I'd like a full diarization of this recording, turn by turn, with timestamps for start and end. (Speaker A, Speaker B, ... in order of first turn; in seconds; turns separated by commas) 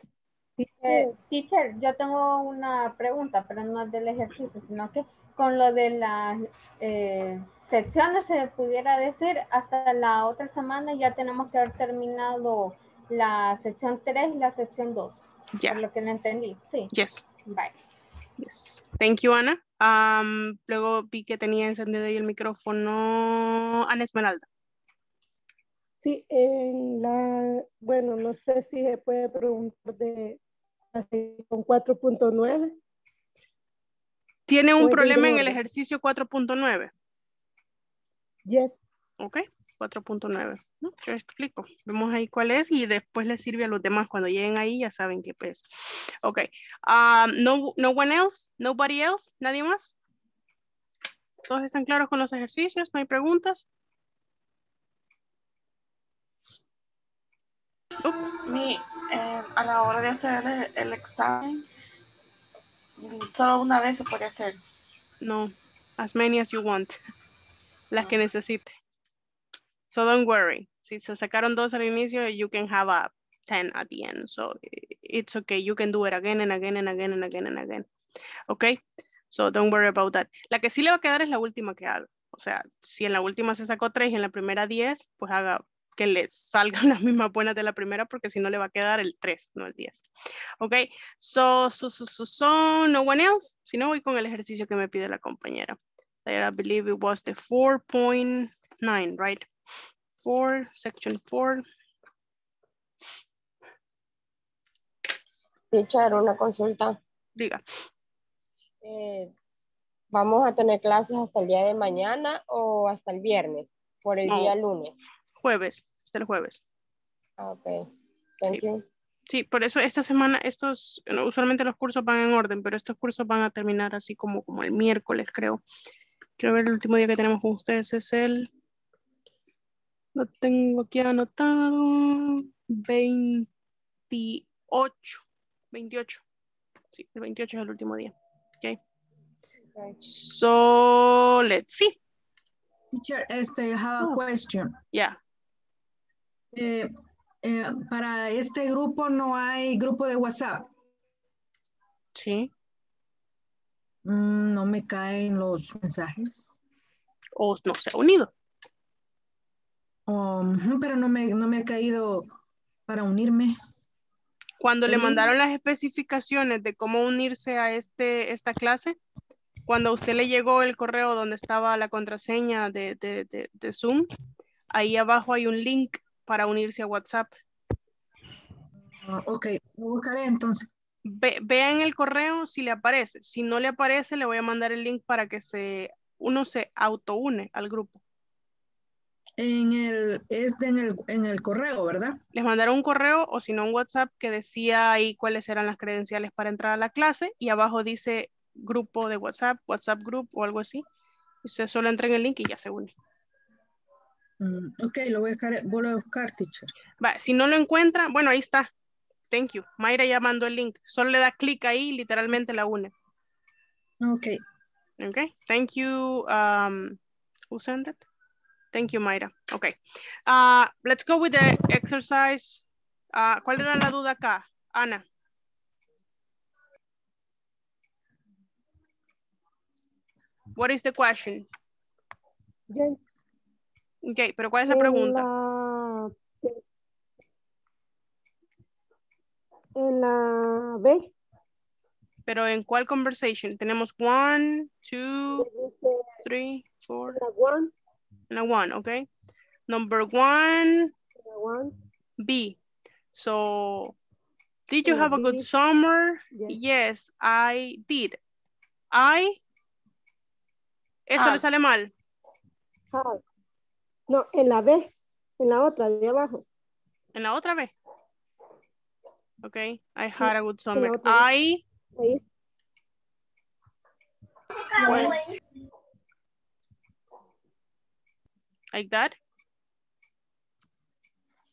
Speaker A: 0.7-1.1, Speaker B: 0.8-16.9, Speaker C: 15.6-15.8, Speaker C: 16.9-17.2, Speaker B: 17.5-17.7, Speaker C: 18.4-24.4, Speaker A: 26.0-30.4, Speaker A: 30.9-32.7, Speaker C: 34.5-36.9, Speaker A: 34.8-35.6, Speaker A: 38.5-38.8, Speaker C: 39.2-49.9, Speaker C: 51.5-53.6, Speaker D: 58.5-61.6, Speaker D: 63.0-64.6, Speaker C: 65.2-67.0, Speaker C: 67.9-68.8, Speaker C: 69.9-77.9, Speaker C: 78.5-78.8, Speaker C: 79.3-90.1, Speaker C: 90.6-99.5, Speaker C: 100.1-101.6, Speaker E: 105.7-107.0, Speaker C: 107.4-107.6, Speaker E: 108.8-109.3, Speaker E: 110.1-115.0, Speaker C: 114.3-114.5, Speaker C: 115.4-116.6, Speaker E: 117.4-117.8, Speaker E: 118.4-118.8, Speaker C: 119.3-125.6, Speaker C: 126.4-128.5, Speaker C: 130.2-133.5, Speaker C: 134.1-136.2, Speaker C: 136.9-138.8, Speaker C: 140.0-142.0, Speaker F: 142.9-144.7, Speaker F: 146.5-146.9, Speaker F: 147.4-150.7, Speaker C: 152.2-152.5, Speaker F: 154.1-156.5, Speaker C: 157.4-158.3, Speaker F: 160.1-162.3, Speaker F: 162.9-163.6, Speaker C: 164.6-169.0, Speaker C: 169.7-174.1, Speaker C: 174.7-177.3, Speaker F: 179.0-180.7, Speaker C: 181.1-188.0, Speaker F: 189.4-192.2, Speaker C: 192.3-200.8, Speaker C: 201.4-202.9, Speaker F: 204.4-206.7, Speaker C: 207.0-208.7, Speaker C: 209.3-212.9, Speaker F: 214.0-214.4, Speaker C: 215.0-217.0, Speaker C: 217.5-218.0, Speaker C: 218.7-219.7, Speaker C: 220.3-225.0, Speaker C: 230.6-231.4, Speaker A: 232.7-233.0, Speaker C: 234.1-235.3, Speaker A: 234.7-236.6, Speaker A: 239.8-241.1, Speaker C: 242.3-245.5, Speaker A: 245.4-246.1, Speaker C: 246.2-247.2, Speaker A: 247.1-247.7, Speaker C: 248.3-249.1, Speaker C: 249.7-250.9, Speaker A: 251.2-251.8, Speaker C: 252.2-252.6, Speaker C: 253.1-254.0, Speaker C: 254.7-258.2, Speaker A: 254.8-255.5, Speaker A: 256.3-256.6, Speaker C: 258.9-259.4, Speaker C: 261.1-261.9, Speaker D: 261.2-261.4, Speaker A: 262.9-263.2, Speaker A: 264.1-266.4, Speaker C: 267.1-267.7, Speaker C: 269.4-271.6, Speaker A: 270.2-271.3, Speaker A: 272.0-272.2, Speaker C: 274.8-275.1, Speaker A: 274.9-275.1, Speaker C: 278.7-279.1